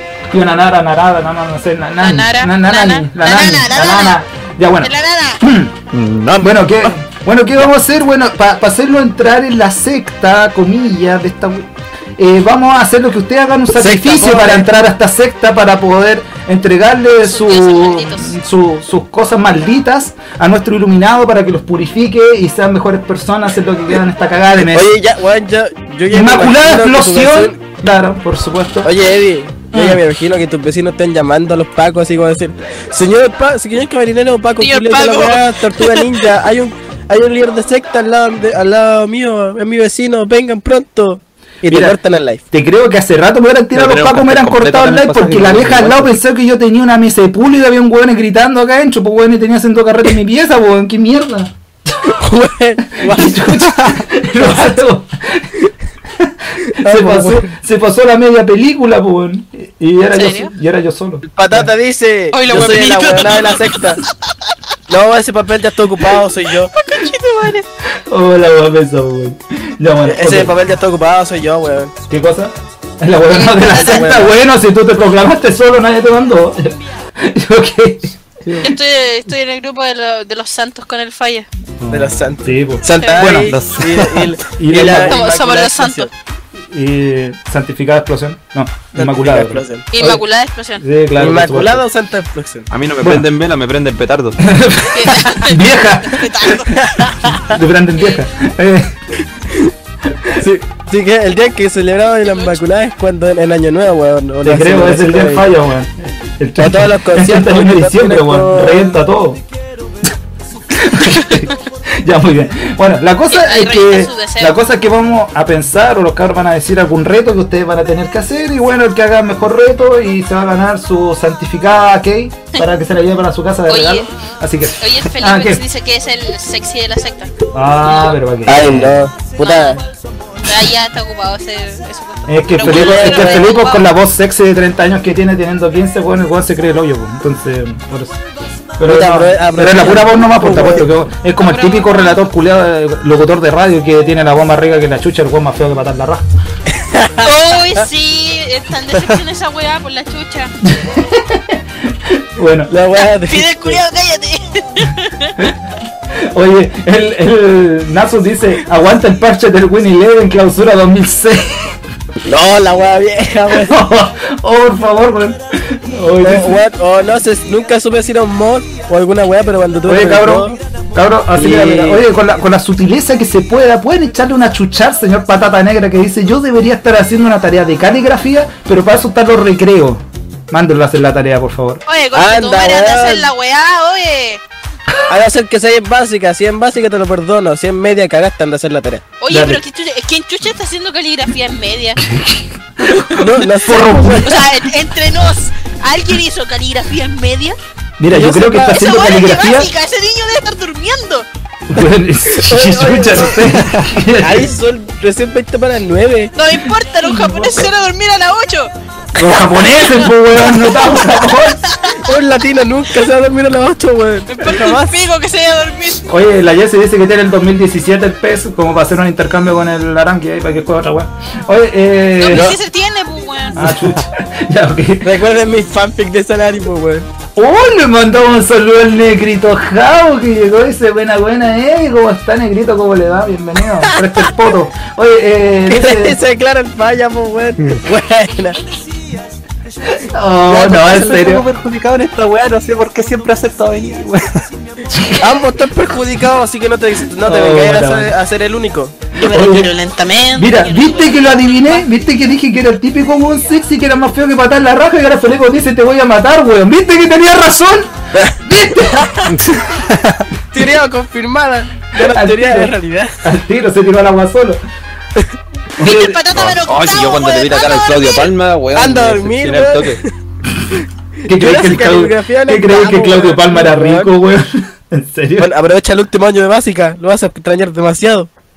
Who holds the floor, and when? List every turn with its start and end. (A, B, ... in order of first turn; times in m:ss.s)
0:00.3-0:05.8 A
0:02.0-0:04.2 B
0:04.8-0:05.4 B
0:05.9-0:06.9 C
0:06.4-0:24.9 A
0:13.8-0:14.8 D
0:17.2-0:18.3 B
0:24.6-0:27.6 D
0:26.1-0:28.9 A
0:28.8-0:42.4 D
0:29.7-0:30.0 A
0:34.6-0:36.1 B
0:41.7-0:42.0 A
0:42.5-0:51.5 A
0:43.7-0:46.1 C
0:52.1-0:53.7 D
0:52.9-1:01.7 A
0:56.6-0:57.5 D
1:00.1-1:00.5 B
1:01.3-1:04.0 D
1:02.3-1:03.8 B
1:04.9-1:06.7 D
1:06.7-1:07.7 B
1:08.1-1:10.6 A
1:10.0-1:11.9 D
1:12.1-1:18.2 A
1:13.3-1:14.3 B
1:13.8-1:14.3 D
1:18.6-1:21.5 B
1:21.8-1:23.6 A
1:21.9-1:26.1 D
1:22.8-1:24.3 C
1:23.0-1:23.3 B
1:24.6-1:25.3 A
1:24.8-1:26.1 B
1:26.7-1:30.2 A
1:29.0-1:30.2 D
1:29.9-1:30.8 B
1:30.8-1:31.8 A
1:31.2-1:32.7 D
1:32.7-1:34.4 C
1:33.0-1:33.3 A
1:34.4-1:36.5 A
1:34.9-1:37.2 B
1:37.2-1:39.0 A
1:38.0-1:38.2 B
1:40.4-1:45.5 D
1:42.3-1:42.6 B
1:44.4-1:49.4 A
1:46.6-1:49.0 D
1:50.7-2:05.6 A
1:53.3-1:54.6 B
2:03.7-2:04.1 B
2:04.8-2:07.3 B
2:07.5-2:09.0 A
2:07.8-2:08.2 B
2:08.5-2:09.8 D
2:09.4-2:09.8 B
2:10.4-2:13.8 B
2:12.3-2:18.2 A
2:12.6-2:13.5 D
2:18.8-2:26.3 A
2:18.8-2:20.9 D
2:21.4-2:22.2 B
2:26.7-2:27.3 D
2:27.2-2:30.5 B
2:30.7-2:32.7 A
2:32.7-2:33.8 D
2:33.0-2:35.5 B
2:36.2-2:41.8 A
2:42.2-2:43.8 D
2:43.5-2:46.6 A
2:46.2-2:50.6 D
2:49.8-3:01.8 A
2:51.4-2:52.0 D
3:01.9-3:04.4 B
3:02.1-3:03.3 D
3:05.1-3:09.0 D
3:09.2-3:12.0 B
3:09.3-3:09.6 A
3:12.0-3:12.5 A
3:12.9-3:13.2 B
3:13.0-3:14.4 D
3:13.6-3:14.5 A
3:14.2-3:17.6 B
3:18.0-3:19.7 A
3:18.1-3:18.8 D
3:18.6-3:21.3 B
3:21.7-3:24.5 A
3:22.4-3:26.3 D
3:26.4-3:32.1 B
3:26.8-3:27.7 A
3:29.2-3:31.6 A
3:32.0-3:35.0 D
3:34.3-3:36.1 B
3:36.1-3:42.6 A
3:42.2-3:43.7 B
3:42.3-3:42.6 D
3:43.5-3:45.1 A
3:45.0-3:47.1 D
3:47.4-3:56.2 A
3:55.7-3:58.6 D
3:59.9-4:01.5 A
4:00.4-4:04.4 C
4:04.9-4:05.3 A
4:05.2-4:09.1 D
4:07.2-4:08.1 A
4:09.2-4:11.9 B
4:09.2-4:09.8 A
4:10.3-4:19.1 A
4:19.3-4:20.2 C
4:20.5-4:23.2 D
4:22.0-4:24.6 A
4:25.8-4:26.3 A
4:25.8-4:28.3 B
4:26.3-4:30.0 C
4:28.7-4:30.1 D
4:31.2-4:34.1 D
4:31.3-4:35.5 A
4:35.4-4:38.3 D